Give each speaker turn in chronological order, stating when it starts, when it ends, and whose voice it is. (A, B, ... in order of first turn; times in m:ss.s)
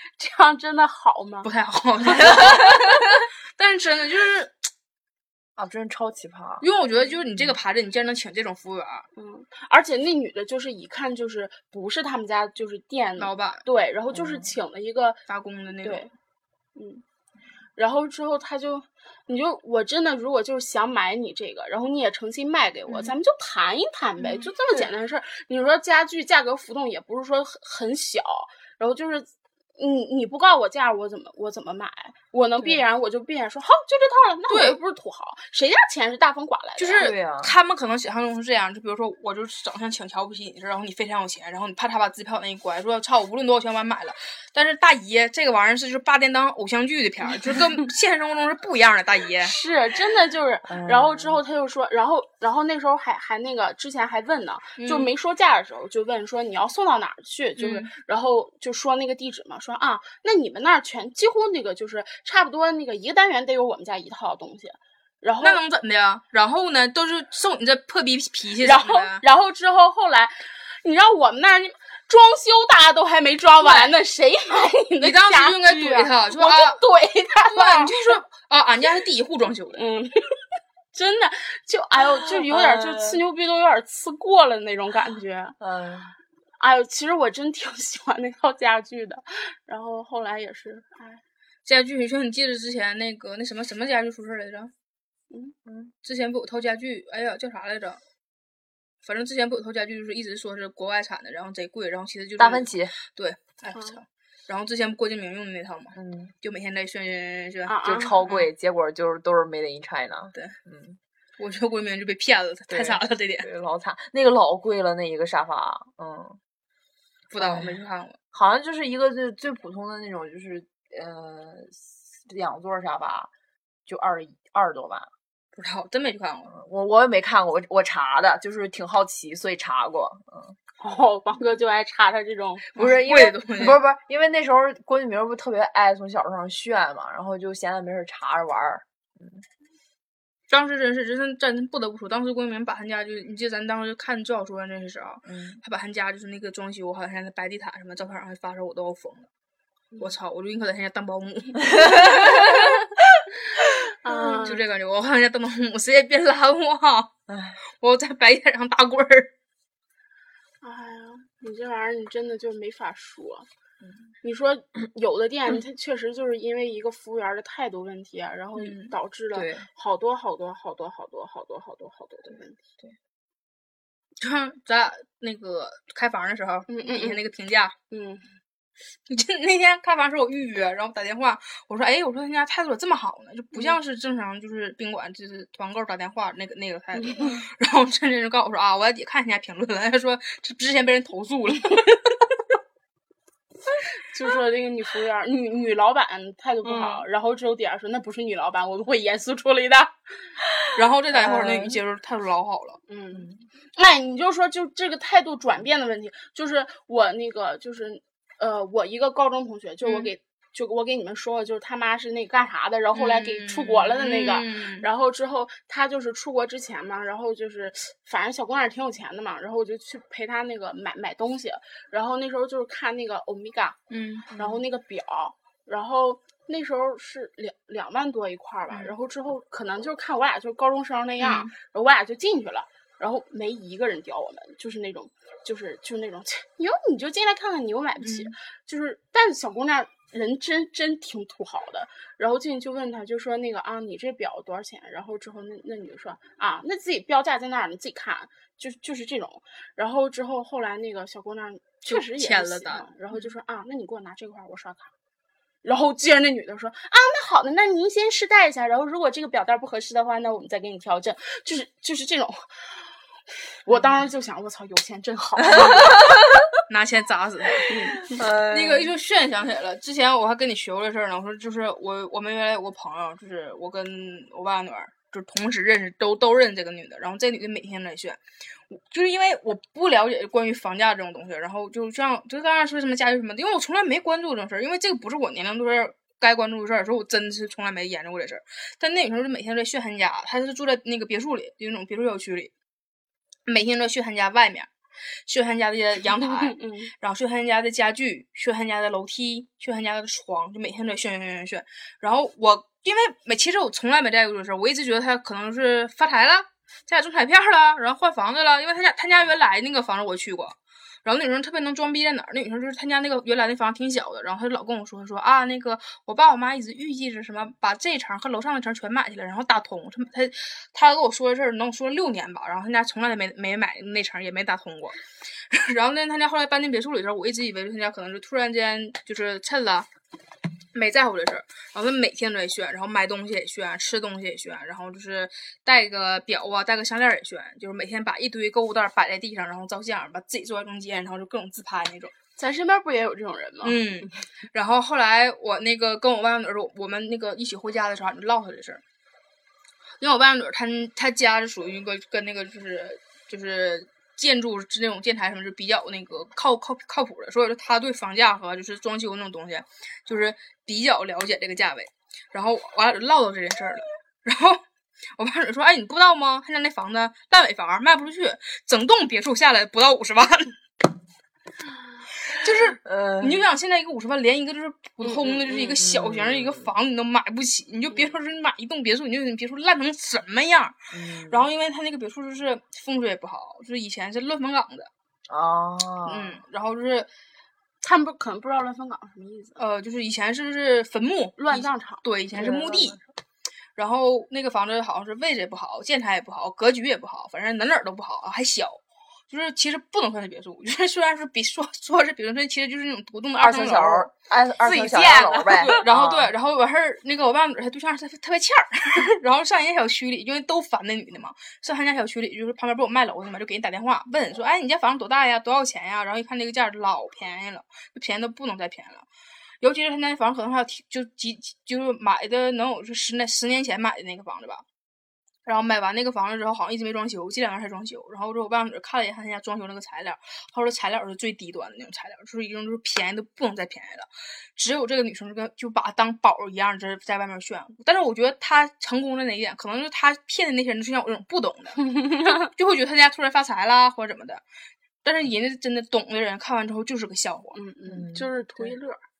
0:00.2-0:01.5 A
0:01.4-0:04.7 B
0:02.1-0:03.0 C
0:05.6-0:06.6 C
0:06.6-0:09.1 B
0:09.2-0:15.2 A
0:13.2-0:13.6 B
0:14.1-0:14.5 C
0:15.3-0:16.1 B
0:15.8-0:16.1 A
0:16.7-0:17.0 A
0:17.8-0:37.1 A
0:24.2-0:24.9 B
0:34.5-0:34.8 B
0:36.8-0:49.5 B
0:37.0-0:37.5 C
0:49.4-1:05.6 A
0:50.7-0:51.4 C
0:54.8-0:55.1 B
0:57.6-0:57.9 B
1:05.4-1:09.2 B
1:08.6-1:18.1 A
1:13.6-1:13.9 B
1:15.0-1:16.8 B
1:17.5-1:19.8 B
1:19.7-1:20.2 A
1:20.9-1:25.6 A
1:22.4-1:23.2 C
1:25.6-1:26.1 C
1:26.6-1:31.2 A
1:31.6-1:34.7 B
1:35.6-1:35.9 C
1:36.0-1:38.0 B
1:39.0-1:48.5 B
1:42.4-1:42.9 C
1:45.9-1:46.3 C
1:47.6-1:48.2 A
1:47.8-1:51.0 C
1:51.4-1:53.5 B
1:52.7-1:56.4 C
1:57.3-1:58.2 B
1:57.4-1:57.8 C
1:58.3-2:03.3 C
2:03.8-2:05.1 C
2:05.5-2:06.5 B
2:06.5-2:10.6 C
2:10.8-2:12.7 A
2:12.7-2:13.8 B
2:12.7-2:19.4 C
2:20.5-2:29.3 B
2:25.2-2:25.6 C
2:30.0-2:32.8 B
2:31.7-2:32.7 C
2:34.0-2:34.6 A
2:34.0-2:34.5 C
2:34.4-2:37.1 B
2:37.3-2:37.6 C
2:37.8-2:39.3 B
2:40.6-2:43.5 A
2:44.2-2:52.6 A
2:48.6-2:48.9 B
2:49.3-2:49.7 C
2:54.2-2:57.7 B
2:56.7-2:57.2 A
2:57.9-2:58.3 A
2:59.1-3:12.4 B
3:06.9-3:07.4 A
3:13.9-3:19.9 A
3:16.6-3:17.0 B
3:20.7-3:22.8 B
3:21.1-3:21.8 C
3:22.9-3:43.8 A
3:29.8-3:30.1 B
3:32.9-3:34.9 B
3:43.9-3:44.4 B
3:44.4-4:14.9 A
3:51.2-3:51.5 B
3:58.0-3:58.3 B
4:11.8-4:13.2 B
4:15.6-4:22.8 A
4:23.6-4:26.0 A
4:25.5-4:26.5 C
4:25.5-4:25.8 B
4:26.7-4:27.7 B
4:27.7-4:28.1 A
4:28.1-4:28.9 C
4:28.4-4:52.5 B
4:53.4-4:54.7 B
4:55.3-5:25.0 B
4:56.2-4:56.9 A
5:25.5-5:29.9 B
5:30.7-5:42.1 B
5:42.4-5:43.8 A
5:43.6-5:48.8 B
5:50.0-6:04.6 B
6:05.2-6:10.6 B
6:12.2-6:24.9 B
6:12.8-6:13.5 C
6:15.0-6:15.8 A
6:15.7-6:16.7 C
6:20.9-6:21.5 C
6:25.3-6:26.4 C
6:26.0-6:27.1 B
6:27.8-6:29.6 A
6:29.6-6:33.0 B
6:31.4-6:32.0 A
6:32.3-6:33.0 C
6:33.8-6:59.0 B
6:43.4-6:46.3 C
6:59.6-7:04.6 B
7:05.4-7:24.4 B
7:21.8-7:22.5 A
7:25.0-7:27.6 B
7:27.5-7:29.0 A
7:27.9-7:28.3 C